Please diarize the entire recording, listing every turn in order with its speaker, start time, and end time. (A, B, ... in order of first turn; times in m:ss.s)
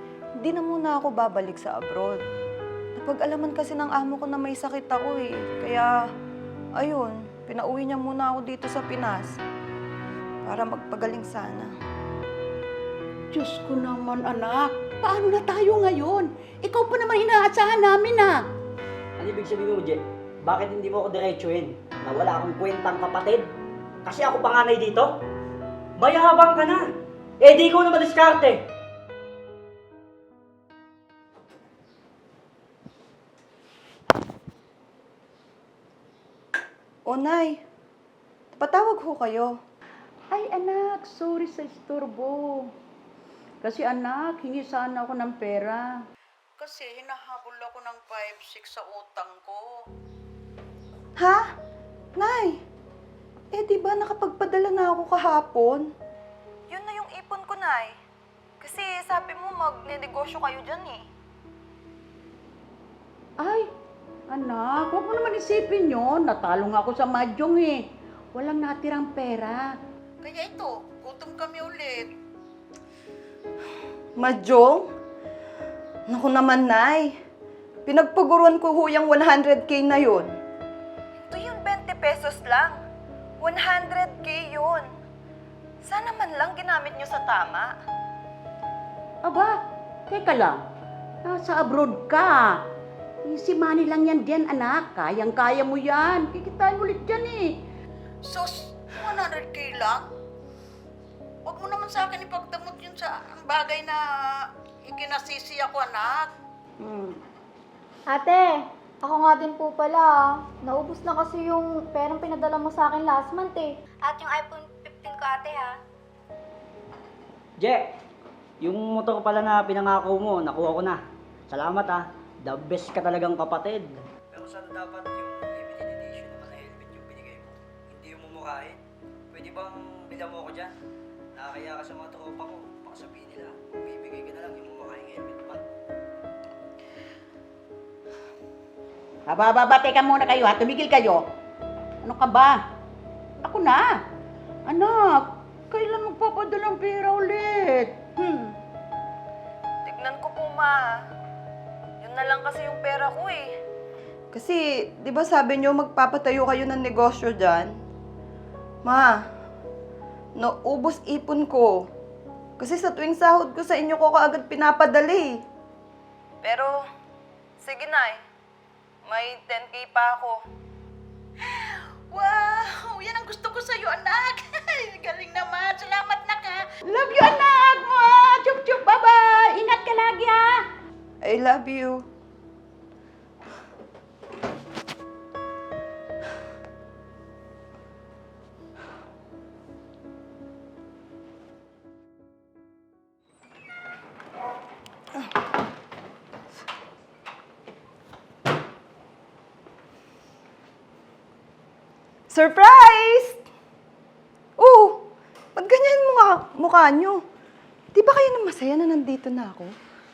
0:00.4-0:02.2 A
0:03.0-0:05.9 A
0:06.8-0:09.4 A
0:10.4-0:11.7 A
0:13.3-0:18.4 B
0:19.2-0:23.5 C
0:24.0-0:25.1 C
0:26.0-0:26.9 C
0:27.4-0:28.6 C
0:37.0-0:37.6 A
0:38.5-0:39.5 A
0:40.3-0:42.7 B
0:43.6-0:45.9 B
0:46.6-0:49.8 B
0:51.2-0:51.4 A
0:52.2-0:52.6 A
0:53.5-0:55.8 A
0:56.7-0:58.0 A
0:58.6-1:01.0 A
1:03.4-1:03.7 B
1:04.3-1:07.8 B
1:08.3-1:09.6 B
1:10.2-1:12.1 B
1:14.2-1:14.9 A
1:16.1-1:17.1 A
1:17.8-1:20.3 A
1:21.3-1:22.8 A
1:23.4-1:24.9 A
1:25.8-1:27.7 A
1:29.2-1:29.5 B
1:30.1-1:30.6 B
1:31.2-1:32.6 B
1:33.2-1:37.5 B
1:38.2-1:40.0 B
1:41.4-1:47.2 B
1:48.1-1:55.8 D
1:57.6-1:57.9 C
1:58.6-2:08.8 C
2:09.3-2:10.7 C
2:11.4-2:15.6 C
2:19.3-2:21.2 B
2:22.0-2:22.6 B
2:23.4-2:23.9 B
2:24.7-2:28.0 B
2:29.8-2:31.0 A
2:32.0-2:33.5 A
2:34.3-2:37.7 A
2:38.8-2:39.2 A
2:40.4-2:41.9 A
2:42.6-2:45.4 A
2:46.4-2:46.8 A
2:47.6-2:48.2 A
2:49.0-2:50.4 A
2:51.4-3:00.6 B
3:01.2-3:02.0 A
3:22.3-3:23.4 A
3:24.6-3:27.2 A
3:27.9-3:29.7 A